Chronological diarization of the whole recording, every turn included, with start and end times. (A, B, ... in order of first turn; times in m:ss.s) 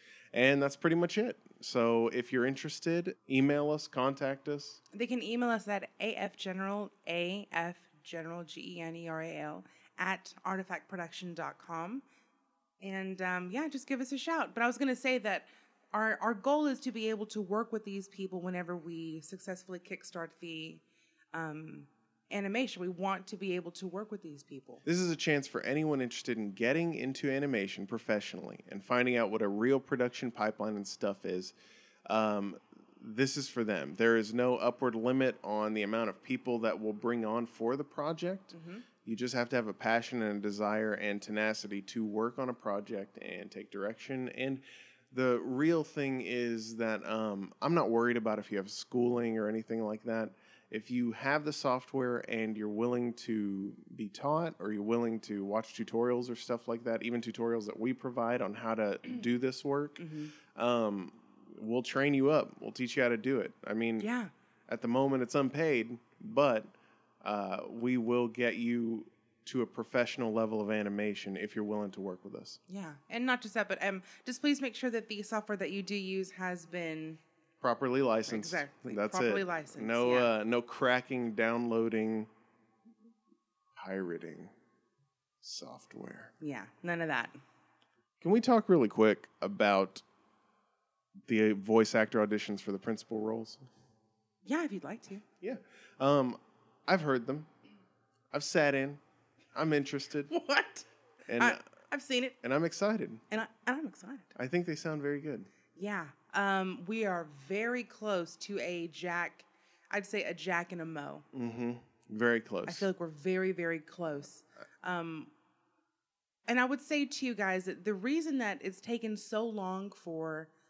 0:00.3-0:04.8 A
0:04.9-0:12.0 B
0:12.8-0:24.8 B
0:24.8-0:31.5 A
0:32.1-1:04.1 A
0:38.5-0:38.8 B
1:00.0-1:00.3 B
1:04.0-1:04.3 B
1:04.7-1:12.6 A
1:12.7-1:17.2 B
1:17.6-1:22.3 A
1:18.2-1:20.3 B
1:23.8-1:24.5 A
1:25.4-1:26.3 A
1:26.4-1:27.4 B
1:28.2-1:30.0 A
1:31.3-1:33.6 A
1:34.4-1:35.2 B
1:35.4-1:37.5 A
1:38.3-1:39.0 A
1:39.5-1:40.3 A
1:40.3-1:42.4 B
1:41.3-1:41.6 A
1:42.4-1:43.2 A
1:43.3-1:44.3 B
1:44.4-1:45.5 A
1:45.7-1:51.2 B
1:51.3-1:52.9 A
1:52.6-1:55.3 B
1:56.5-2:00.5 B